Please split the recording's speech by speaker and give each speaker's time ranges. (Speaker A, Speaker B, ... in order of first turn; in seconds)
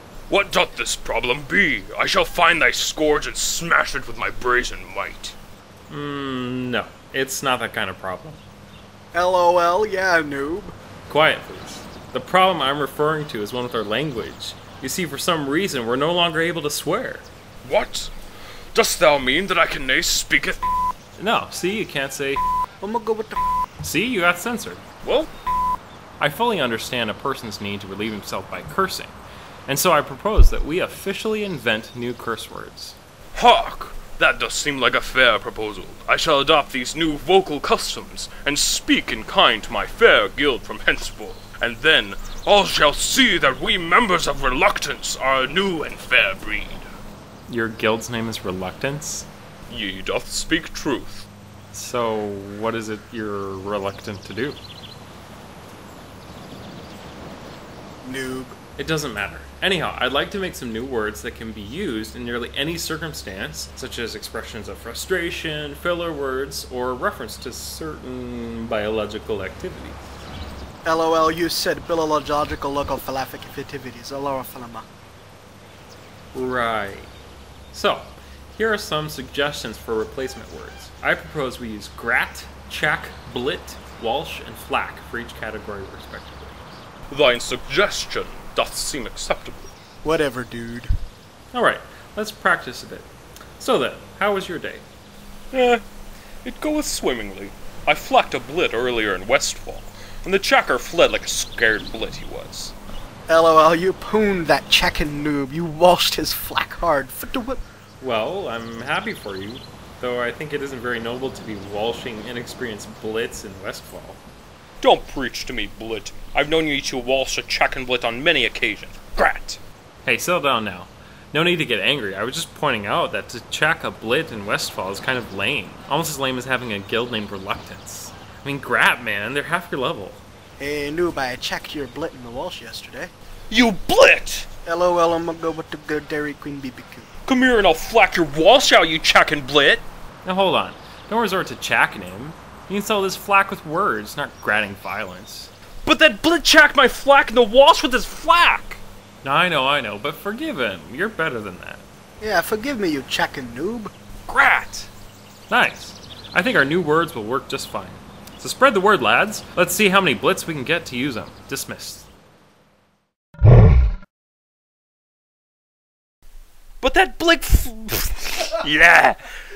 Speaker A: 0.3-5.3, 17.6-18.1, 18.7-20.6, 25.0-25.3, 33.3-46.9, 49.7-51.3, 87.1-89.7, 95.5-95.8, 96.4-102.7, 114.8-119.6, 133.5-134.5, 137.3-139.8, 145.8-148.8, 154.3-154.9, 166.8-169.1
Speaker B: 5.9-8.4, 11.1-17.3, 21.2-22.4, 23.8-24.9, 26.2-29.1, 29.7-33.0, 47.5-49.3, 51.7-54.6, 58.8-70.0, 76.3-77.1, 77.7-86.6, 91.5-94.8, 108.0-114.2, 120.0-130.2, 140.2-145.5, 149.2-151.8, 155.5-162.1, 168.5-169.2
Speaker C: 9.1-10.8, 22.8-23.4, 58.0-58.6, 70.8-74.9, 90.0-90.9, 103.3-107.6, 130.6-133.1, 134.7-137.1, 152.2-153.9